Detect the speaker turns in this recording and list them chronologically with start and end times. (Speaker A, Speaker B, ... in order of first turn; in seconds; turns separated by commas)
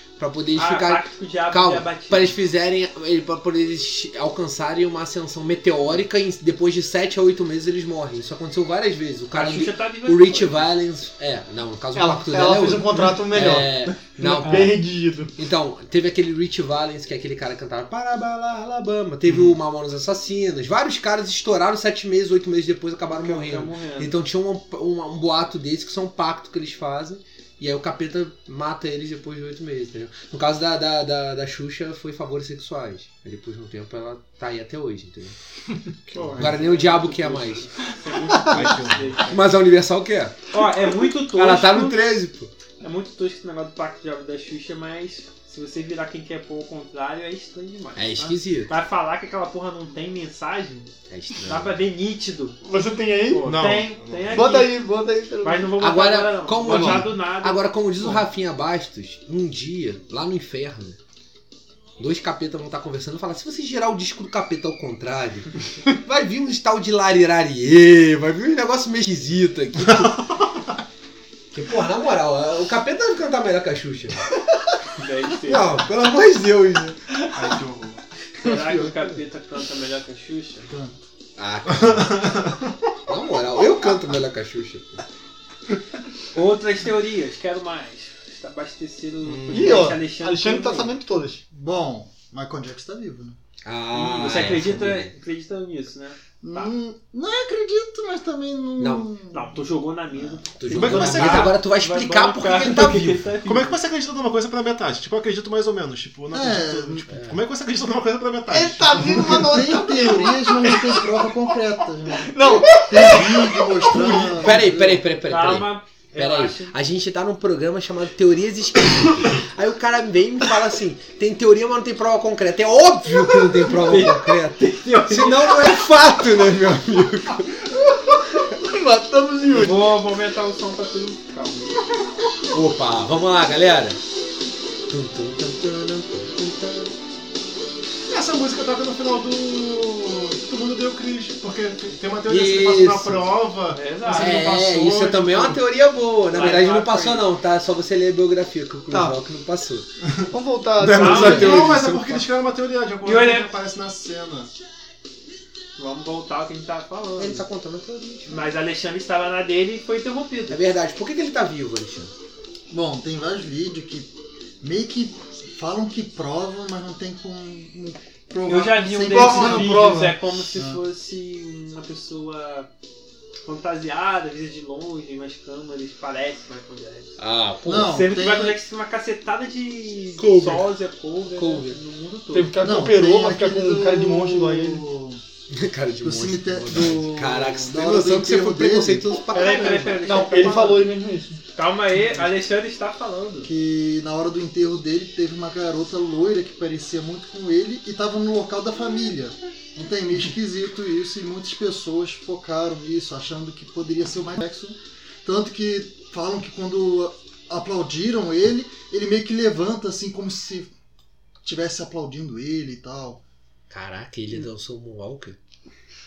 Speaker A: 0.2-14.8, Speaker B: 0.6-2.4, Speaker B: 9.3-10.7, Speaker C: 11.9-15.4, Speaker A: 15.4-35.4, Speaker D: 19.3-19.6, Speaker B: 23.1-24.1, Speaker B: 36.1-39.4, Speaker D: 36.1-36.6, Speaker A: 36.4-37.7, Speaker D: 38.5-39.3, Speaker A: 39.2-40.5, Speaker B: 40.5-42.0, Speaker A: 41.3-42.5, Speaker B: 42.8-50.9, Speaker A: 48.0-48.7, Speaker A: 51.1-51.8, Speaker B: 51.5-52.6, Speaker C: 52.6-53.7, Speaker B: 53.3-54.8, Speaker D: 53.4-54.6, Speaker C: 54.3-55.8, Speaker B: 55.4-58.2, Speaker A: 55.8-61.0, Speaker C: 56.7-57.1, Speaker A: 62.0-70.3, Speaker D: 69.9-70.1, Speaker A: 71.5-74.3, Speaker B: 75.0-75.8, Speaker A: 75.4-77.0, Speaker D: 77.3-78.0, Speaker B: 78.4-80.7, Speaker E: 78.4-79.2, Speaker E: 80.7-81.0, Speaker A: 81.4-82.4, Speaker D: 81.7-82.7, Speaker A: 83.1-85.0, Speaker B: 86.3-90.9, Speaker D: 89.2-90.0, Speaker C: 89.5-91.4, Speaker E: 91.5-93.4, Speaker A: 93.7-95.1, Speaker B: 93.9-96.7, Speaker E: 96.4-100.5, Speaker A: 98.8-99.1, Speaker B: 99.3-103.8, Speaker A: 100.6-103.2, Speaker D: 100.7-101.6, Speaker D: 103.5-109.5, Speaker E: 106.3-107.1, Speaker A: 107.1-107.4, Speaker C: 108.5-111.3, Speaker E: 109.0-115.0, Speaker C: 112.2-114.2, Speaker A: 113.9-127.7, Speaker B: 115.3-116.7, Speaker B: 123.7-125.8, Speaker C: 128.4-129.8, Speaker B: 129.5-131.8, Speaker A: 132.5-134.0, Speaker A: 134.9-136.9, Speaker D: 138.1-145.6, Speaker A: 142.3-143.3, Speaker B: 143.7-144.4, Speaker A: 144.1-149.9, Speaker B: 146.3-147.3, Speaker C: 148.9-149.2, Speaker C: 150.3-151.9, Speaker A: 150.8-152.2, Speaker D: 150.9-154.5, Speaker B: 151.0-151.6, Speaker B: 153.1-153.5, Speaker B: 155.8-157.5, Speaker A: 157.2-158.4, Speaker B: 158.3-160.6, Speaker A: 160.5-162.1, Speaker E: 162.7-169.9, Speaker B: 168.4-172.7, Speaker C: 169.1-170.2, Speaker E: 170.5-170.8, Speaker B: 173.5-177.2, Speaker A: 177.2-178.1, Speaker E: 177.6-178.6, Speaker B: 177.9-182.5, Speaker A: 180.2-180.7, Speaker A: 181.3-181.8, Speaker C: 182.3-184.8, Speaker E: 182.6-185.2, Speaker A: 185.5-190.0, Speaker E: 186.0-189.2, Speaker B: 189.3-190.9, Speaker C: 190.0-191.4, Speaker B: 191.5-193.5, Speaker E: 193.4-210.7, Speaker E: 211.4-213.2, Speaker A: 213.7-215.4